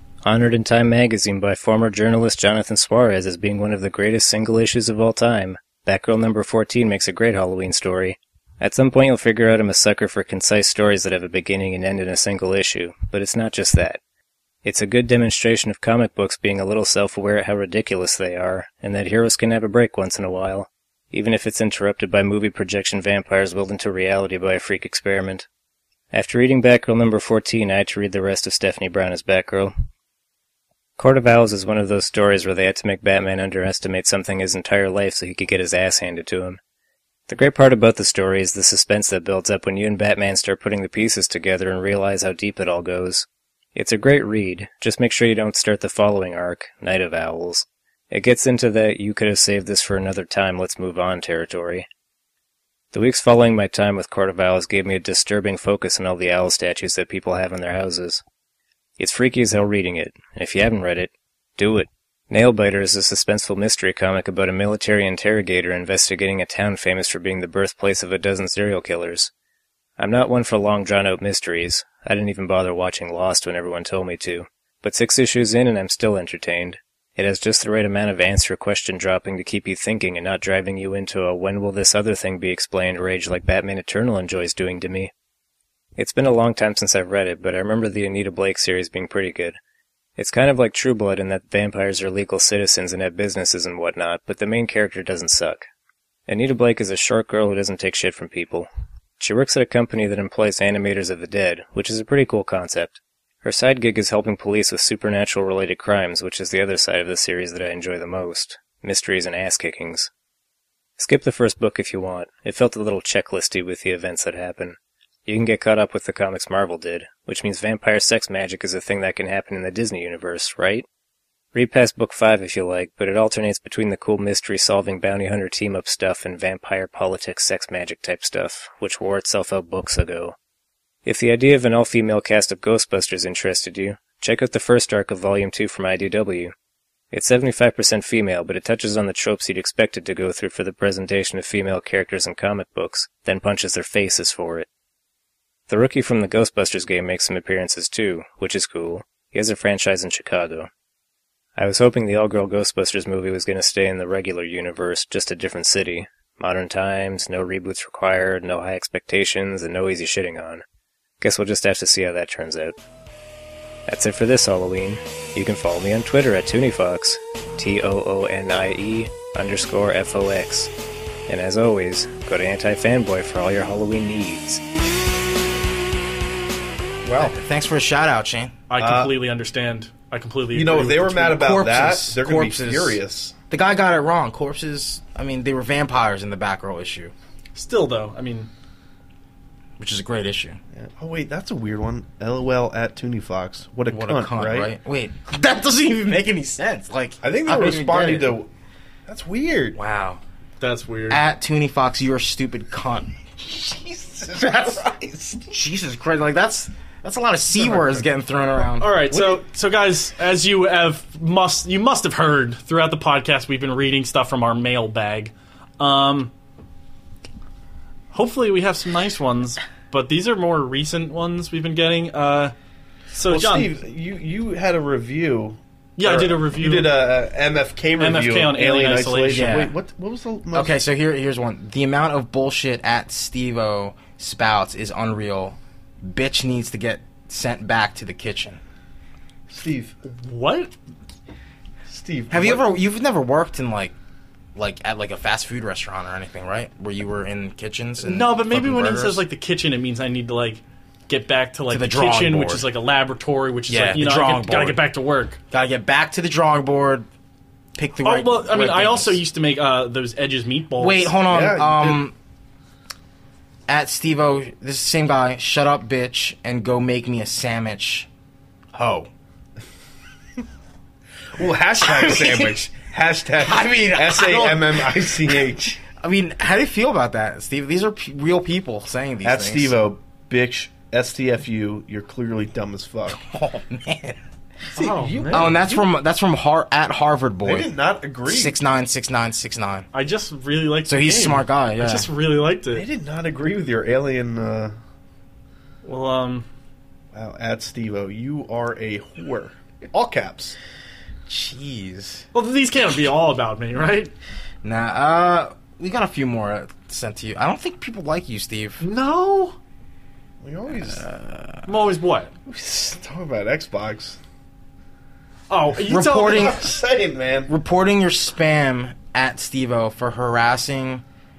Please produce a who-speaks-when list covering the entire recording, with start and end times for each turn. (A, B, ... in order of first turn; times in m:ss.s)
0:00.2-0:14.0 A
0:14.6-0:25.5 A
0:26.1-0:29.7 A
0:31.0-0:36.6 A
0:37.3-0:51.9 A
0:52.9-0:58.2 A
0:59.0-1:09.3 A
1:10.0-1:25.1 A
1:26.0-1:29.6 A
1:30.2-1:35.6 A
1:36.3-1:50.1 A
1:51.0-2:00.9 A
2:01.5-2:10.4 A
2:11.0-2:16.5 A
2:17.1-2:24.7 A
2:25.7-2:30.7 A
2:31.6-2:40.6 A
2:41.2-2:42.8 A
2:43.9-2:50.7 A
2:51.3-2:54.6 A
2:57.0-2:57.4 B
2:57.2-2:58.6 C
2:58.7-3:01.4 D
2:58.8-2:59.2 B
3:00.5-3:03.4 B
3:01.4-3:03.0 C
3:03.5-3:07.1 C
3:07.6-3:08.5 D
3:09.8-3:10.6 C
3:10.7-3:14.7 B
3:13.9-3:18.4 C
3:17.2-3:18.5 B
3:19.1-3:19.8 B
3:19.8-3:20.2 C
3:20.6-3:21.2 D
3:21.1-3:23.1 C
3:23.4-3:25.5 B
3:24.4-3:24.8 C
3:25.5-3:29.4 C
3:27.6-3:28.0 B
3:28.8-3:36.3 D
3:38.1-3:42.5 D
3:43.1-3:43.7 D
3:43.3-3:50.8 B
3:46.0-3:47.0 D
3:48.0-3:49.6 D
3:49.3-3:49.7 C
3:50.5-3:58.6 C
3:59.5-4:00.0 B
4:00.2-4:00.7 D
4:01.9-4:02.7 B
4:02.3-4:04.0 C
4:04.6-4:09.2 C
4:08.0-4:15.4 D
4:11.7-4:12.7 C
4:13.7-4:14.8 C
4:15.5-4:17.1 C
4:17.8-4:19.2 C
4:18.0-4:21.2 D
4:20.8-4:22.1 C
4:21.3-4:22.0 B
4:23.7-4:28.1 C
4:28.7-4:29.1 C
4:31.4-4:35.8 B
4:31.8-4:32.6 C
4:33.4-4:35.0 C
4:35.9-4:39.8 C
4:39.2-4:43.2 B
4:43.1-4:44.2 C
4:44.8-4:45.6 D
4:44.8-4:45.8 B
4:45.3-4:47.7 C
4:47.4-4:48.6 B
4:48.3-4:49.9 C
4:49.9-4:52.9 D
4:50.9-4:52.1 C
4:52.7-4:54.7 B
4:55.8-4:56.5 D
4:57.1-5:00.6 B
5:01.3-5:02.2 C
5:02.3-5:04.1 D
5:04.6-5:08.8 C
5:08.8-5:09.6 D
5:10.4-5:11.1 B
5:10.9-5:11.6 C
5:11.7-5:12.3 D
5:12.5-5:14.2 B
5:15.5-5:16.7 D
5:15.9-5:16.6 C
5:16.2-5:17.5 B
5:17.5-5:21.0 C